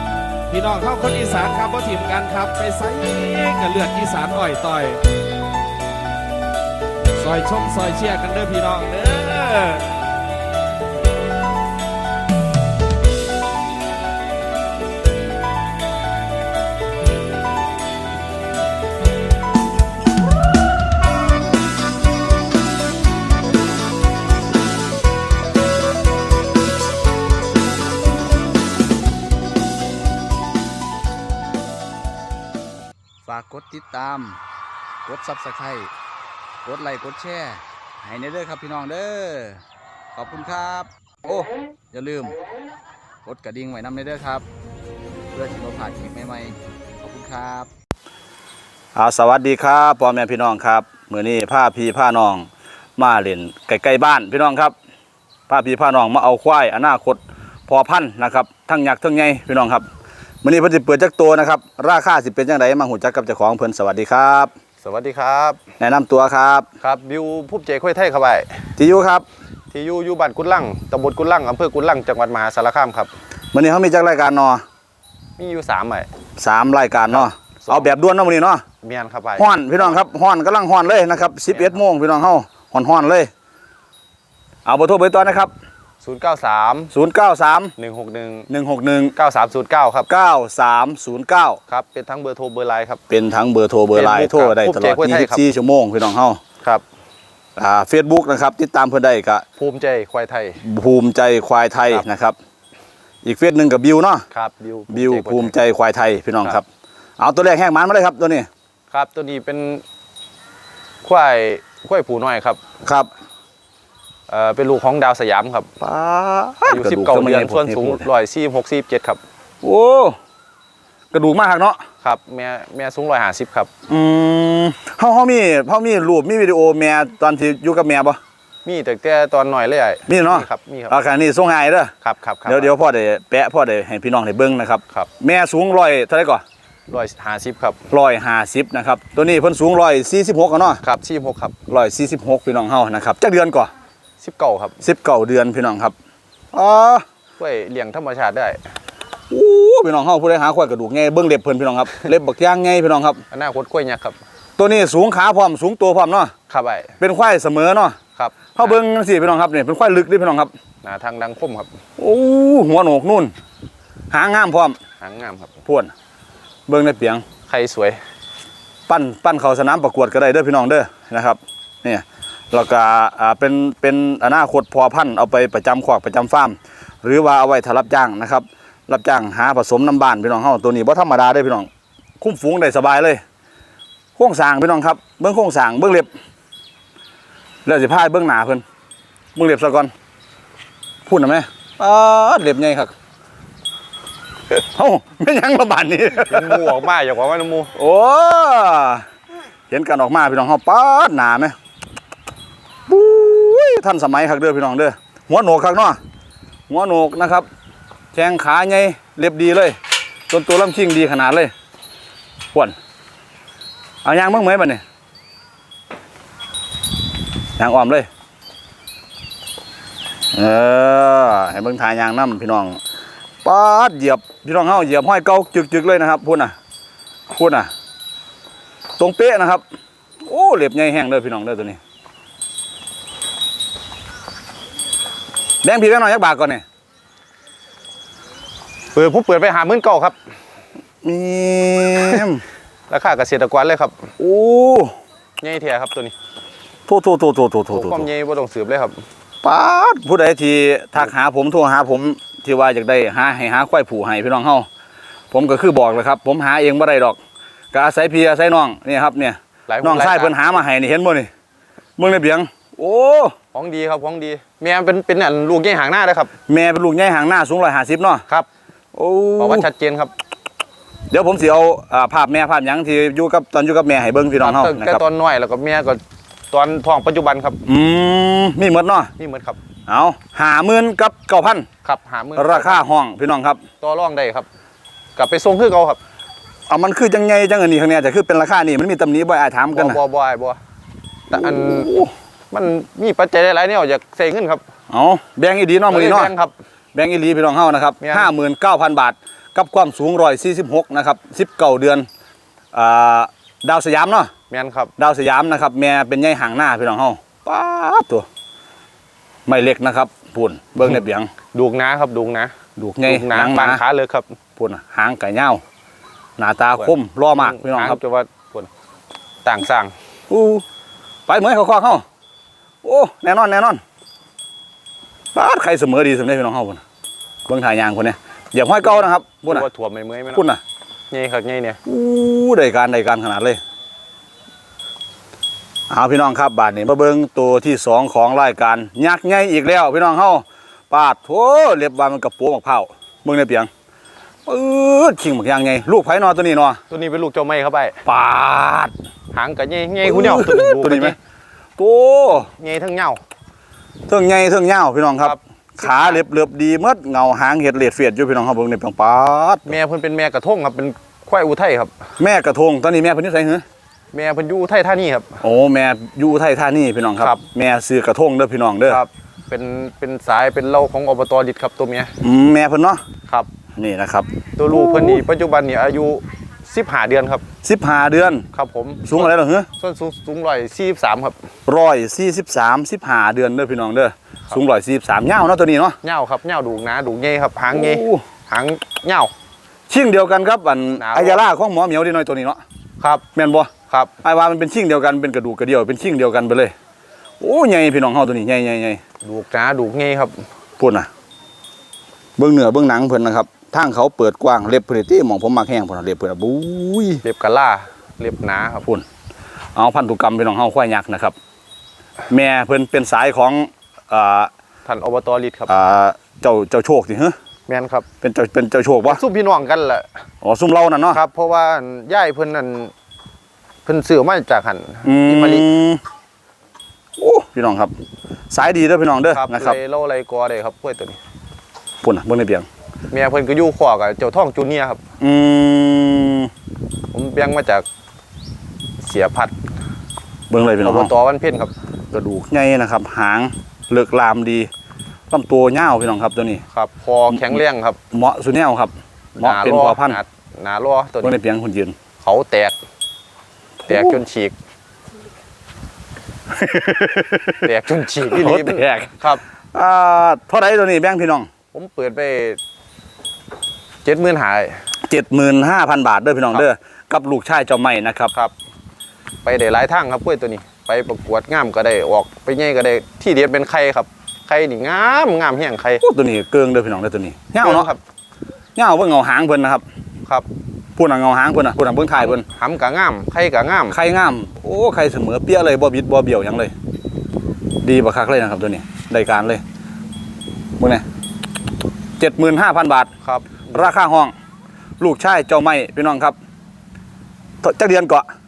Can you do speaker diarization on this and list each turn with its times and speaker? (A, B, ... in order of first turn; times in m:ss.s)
0:00.5-0:05.0 A
0:07.2-0:09.9 A
0:33.2-0:34.3 B
0:35.1-0:35.9 B
0:36.6-0:39.6 B
0:40.2-0:40.9 B
0:41.9-0:42.3 B
0:43.2-0:44.4 B
0:45.3-0:47.7 B
0:48.9-0:54.7 C
0:55.5-0:59.8 C
1:00.4-1:04.5 C
1:04.8-1:05.6 D
1:05.8-1:06.7 C
1:06.8-1:08.6 D
1:08.8-1:09.2 C
1:09.7-1:13.1 D
1:13.5-1:14.6 C
1:15.4-1:16.1 D
1:16.4-1:18.6 C
1:17.1-1:17.9 D
1:18.8-1:19.5 D
1:19.4-1:23.3 C
1:21.5-1:21.8 D
1:24.6-1:25.5 C
1:26.0-1:26.9 D
1:26.9-1:27.7 C
1:27.8-1:28.5 D
1:28.5-1:29.1 C
1:29.2-1:30.1 D
1:30.1-1:31.6 C
1:31.7-1:33.0 D
1:33.1-1:36.4 C
1:33.9-1:35.4 D
1:37.6-1:39.4 C
1:39.6-1:40.6 D
1:40.6-1:42.4 C
1:43.2-1:44.2 C
1:44.3-1:45.5 D
1:44.9-1:46.6 C
1:47.2-1:48.5 C
1:48.9-1:49.8 D
1:51.0-1:52.6 D
1:52.8-1:53.1 C
1:54.3-1:55.7 D
1:55.8-1:58.0 C
1:56.7-1:59.2 D
1:59.6-2:00.2 C
2:01.1-2:01.8 C
2:02.0-2:03.7 D
2:03.9-2:08.2 C
2:08.6-2:11.0 D
2:10.1-2:11.9 C
2:12.0-2:12.7 D
2:12.4-2:16.4 C
2:16.9-2:17.8 D
2:17.9-2:20.8 C
2:20.8-2:21.6 D
2:21.7-2:23.7 C
2:24.2-2:24.8 D
2:24.8-2:25.9 C
2:26.5-2:27.0 C
2:27.4-2:28.6 D
2:29.3-2:33.2 C
2:33.3-2:34.2 D
2:34.6-2:36.3 C
2:36.5-2:36.9 D
2:37.0-2:38.0 C
2:38.1-2:38.8 D
2:38.6-2:40.5 C
2:40.8-2:41.7 D
2:42.0-2:43.3 C
2:44.1-2:44.8 C
2:45.0-2:45.6 D
2:45.6-2:45.9 C
2:46.7-2:47.2 C
2:47.5-2:48.0 D
2:48.9-3:01.7 C
3:02.2-3:03.2 C
3:04.2-3:06.1 C
3:07.6-3:08.6 C
3:09.3-3:09.9 C
3:11.0-3:12.9 C
3:14.5-3:16.8 C
3:16.2-3:17.7 D
3:17.8-3:19.0 C
3:19.7-3:21.5 C
3:22.9-3:26.0 C
3:26.7-3:27.5 C
3:28.1-3:29.8 C
3:30.3-3:31.5 C
3:34.0-3:34.8 C
3:37.6-3:38.1 C
3:40.3-3:42.8 C
3:43.4-3:46.5 C
3:47.3-3:47.7 C
3:49.0-3:49.6 C
3:50.2-3:51.8 C
3:55.6-3:56.6 C
3:58.9-4:00.2 D
4:01.0-4:02.4 C
4:02.9-4:04.1 D
4:04.2-4:04.9 C
4:05.4-4:06.1 D
4:06.9-4:08.1 C
4:07.7-4:09.0 D
4:09.4-4:14.7 C
4:15.3-4:17.2 C
4:17.7-4:21.3 C
4:19.7-4:20.5 D
4:22.0-4:23.3 C
4:23.5-4:26.3 D
4:26.5-4:28.2 C
4:28.9-4:29.7 C
4:29.4-4:30.1 D
4:31.1-4:35.0 C
4:34.4-4:37.6 D
4:37.6-4:39.1 C
4:39.2-4:39.6 D
4:39.9-4:41.6 C
4:41.8-4:42.8 D
4:42.4-4:43.6 C
4:43.8-4:44.5 D
4:45.2-4:46.0 D
4:46.7-4:50.0 C
4:49.7-4:50.6 D
4:51.3-4:51.9 D
4:51.3-4:52.1 C
4:52.5-4:54.6 D
4:54.9-4:56.3 C
4:55.9-4:56.5 D
4:56.9-5:02.0 C
4:58.0-4:58.3 D
5:02.7-5:04.3 C
5:04.5-5:04.9 D
5:05.0-5:08.2 C
5:09.5-5:11.3 C
5:11.5-5:12.5 D
5:12.8-5:13.8 C
5:13.0-5:14.3 D
5:14.6-5:15.6 C
5:16.4-5:18.0 C
5:16.8-5:18.7 D
5:19.4-5:19.9 D
5:20.3-5:20.6 C
5:21.3-5:22.0 C
5:22.8-5:23.8 C
5:25.3-5:26.8 C
5:27.5-5:29.7 C
5:28.8-5:30.5 D
5:30.3-5:30.6 C
5:31.1-5:31.8 D
5:31.8-5:33.6 C
5:35.9-5:43.7 C
5:44.4-5:46.8 C
5:46.9-5:48.0 D
5:48.0-5:48.9 C
5:49.3-5:51.2 D
5:50.0-5:51.2 C
5:51.8-5:52.5 C
5:52.4-5:53.2 D
5:54.1-5:59.7 C
5:55.2-5:56.2 D
5:59.6-6:01.9 D
6:02.2-6:03.6 C
6:04.1-6:05.4 D
6:05.4-6:09.0 C
6:08.9-6:12.1 D
6:12.2-6:13.0 C
6:13.8-6:15.2 C
6:14.6-6:17.4 D
6:17.6-6:18.4 C
6:18.5-6:21.4 D
6:19.0-6:19.7 C
6:21.7-6:26.0 C
6:26.0-6:29.3 D
6:27.7-6:28.2 C
6:29.9-6:32.6 C
6:30.9-6:31.4 D
6:33.0-6:33.2 D
6:33.3-6:33.7 C
6:34.2-6:36.7 C
6:37.4-6:39.0 C
6:39.2-6:40.4 D
6:40.8-6:41.1 C
6:42.4-6:47.2 C
6:47.2-6:48.9 D
6:49.7-6:51.3 C
6:52.3-6:54.5 C
6:54.8-6:55.7 D
6:55.7-6:57.4 C
6:57.7-6:58.0 D
6:58.2-6:59.2 C
6:59.0-7:00.1 D
7:00.4-7:01.2 C
7:01.1-7:02.9 D
7:03.8-7:05.7 D
7:05.0-7:06.0 C
7:07.2-7:07.9 C
7:08.5-7:09.8 C
7:09.3-7:11.2 D
7:12.0-7:12.7 C
7:13.1-7:15.0 D
7:15.2-7:16.5 C
7:17.1-7:17.8 D
7:19.0-7:19.6 D
7:20.5-7:21.1 C
7:20.8-7:21.7 D
7:22.1-7:24.7 C
7:25.3-7:26.6 C
7:26.7-7:28.0 D
7:27.3-7:27.6 C
7:28.1-7:30.2 C
7:29.4-7:31.3 D
7:31.2-7:31.9 C
7:32.2-7:32.8 D
7:33.8-7:34.2 C
7:33.9-7:34.5 D
7:36.5-7:41.5 C
7:37.6-7:39.4 D
7:41.7-7:42.6 D
7:44.0-7:44.8 D
7:45.1-7:48.3 C
7:49.4-7:56.0 D
7:56.0-7:57.9 C
7:57.6-7:58.0 D
7:58.8-7:59.8 C
8:01.0-8:02.4 C
8:02.2-8:04.0 D
8:03.9-8:06.7 C
8:07.8-8:09.6 C
8:10.8-8:11.0 C
8:12.2-8:13.1 C
8:13.2-8:13.9 D
8:13.7-8:14.3 C
8:15.0-8:16.4 C
8:17.6-8:18.2 C